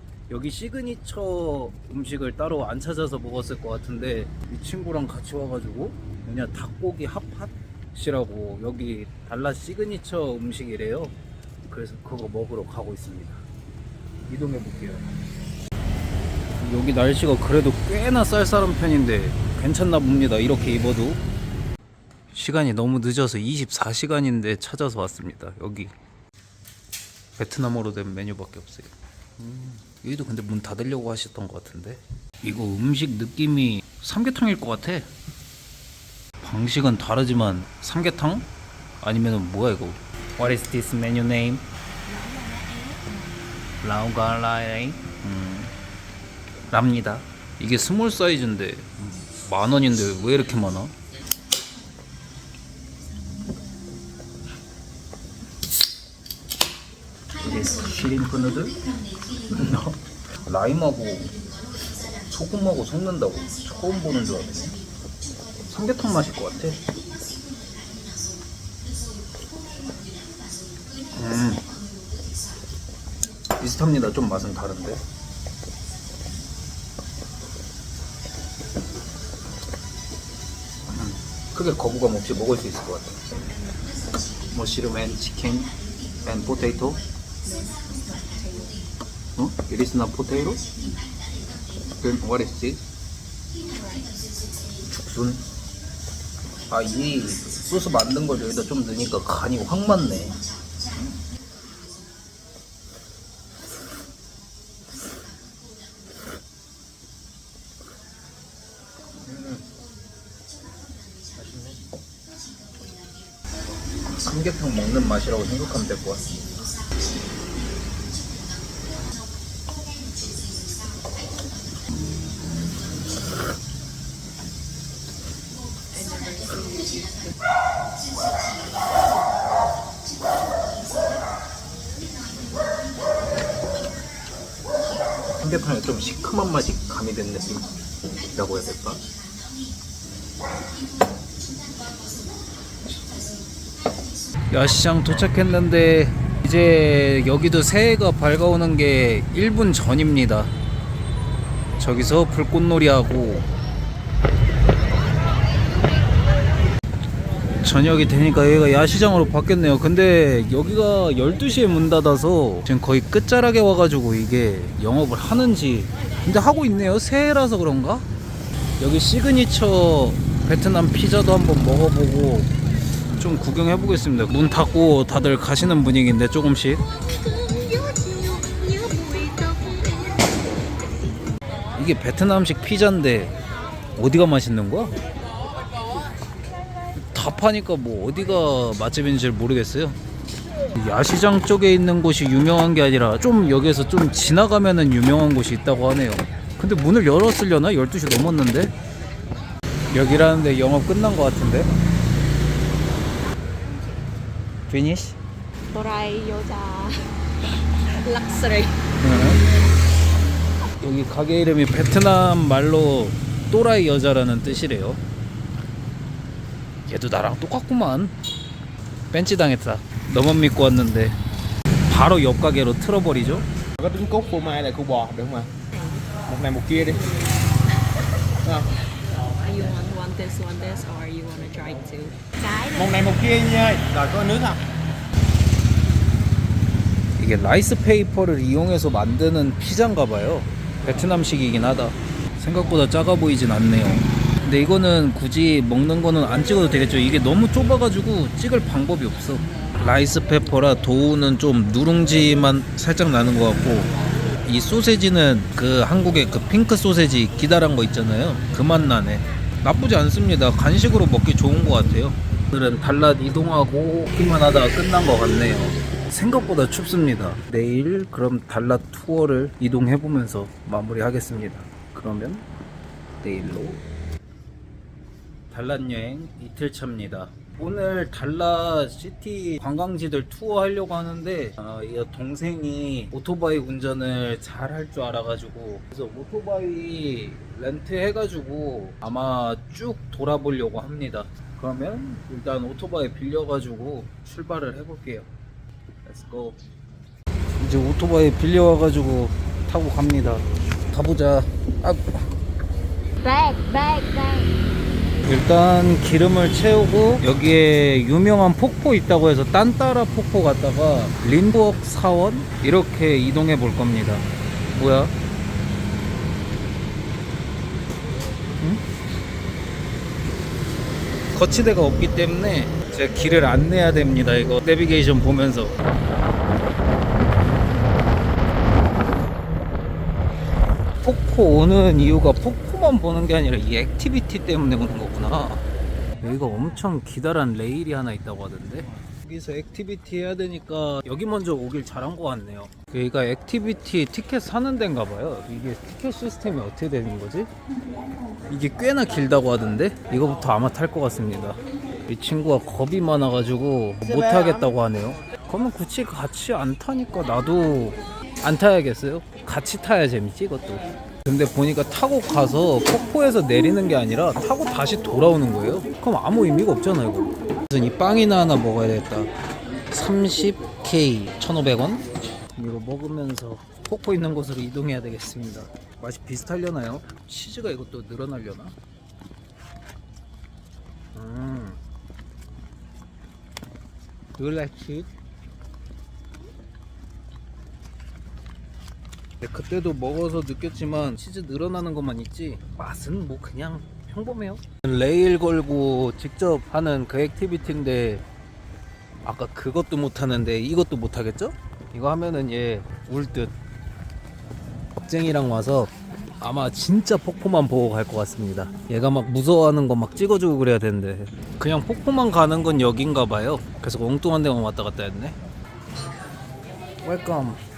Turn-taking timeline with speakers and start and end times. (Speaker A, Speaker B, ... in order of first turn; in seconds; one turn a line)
Speaker A: 0.3-11.1
Speaker A: 11.7-13.4
Speaker A: 14.2-15.1
Speaker A: 16.6-21.2
Speaker A: 22.3-25.9
Speaker A: 27.4-35.1
Speaker A: 36.4-38.5
Speaker A: 39.0-41.6
Speaker A: 43.8-45.7
Speaker A: 46.7-50.9
Speaker A: 57.4-58.8
Speaker A: 59.5-61.3
Speaker A: 62.3-64.8
Speaker A: 65.7-66.8
Speaker A: 71.1-71.6
Speaker A: 73.6-75.0
Speaker A: 80.9-83.2
Speaker A: 84.5-85.7
Speaker A: 86.2-87.0
Speaker B: 87.5-88.8
Speaker A: 89.3-90.6
Speaker A: 92.0-92.8
Speaker A: 94.8-95.4
Speaker A: 96.7-100.4
Speaker A: 109.2-109.7
Speaker A: 111.3-111.8
Speaker A: 114.1-116.5
Speaker B: 125.9-127.3
Speaker A: 135.4-137.8
Speaker A: 138.3-139.0
Speaker A: 144.5-150.5
Speaker A: 151.8-153.5
Speaker A: 157.6-168.0
Speaker A: 168.8-172.5
Speaker A: 173.1-176.8
Speaker B: 177.1-180.3
Speaker A: 181.7-183.3
Speaker A: 183.9-184.9
Speaker A: 186.9-190.0
Speaker A: 190.7-198.7
Speaker A: 199.9-201.7
Speaker A: 204.7-205.2
Speaker B: 205.7-207.0
Speaker B: 207.9-208.8
Speaker A: 209.0-209.4
Speaker A: 210.8-215.0
Speaker A: 216.9-218.1
Speaker A: 219.1-221.2
Speaker A: 221.9-223.5
Speaker C: 223.8-225.5
Speaker B: 225.7-226.0
Speaker C: 226.3-227.1
Speaker B: 229.4-233.0
Speaker C: 232.8-234.6
Speaker A: 237.2-253.9
Speaker A: 254.4-272.4
Speaker A: 273.2-273.8
Speaker A: 275.5-295.3
Speaker A: 296.0-296.6
Speaker A: 297.6-302.2
Speaker B: 303.2-304.5
Speaker A: 305.2-315.1
Speaker A: 321.3-325.8
Speaker A: 331.0-335.6
Speaker A: 336.2-347.5
Speaker A: 348.5-369.3
Speaker A: 369.9-378.7
Speaker A: 381.1-381.8
Speaker A: 384.4-385.1
Speaker A: 389.4-398.2
Speaker A: 399.2-403.5
Speaker A: 405.0-415.4
Speaker A: 417.0-417.6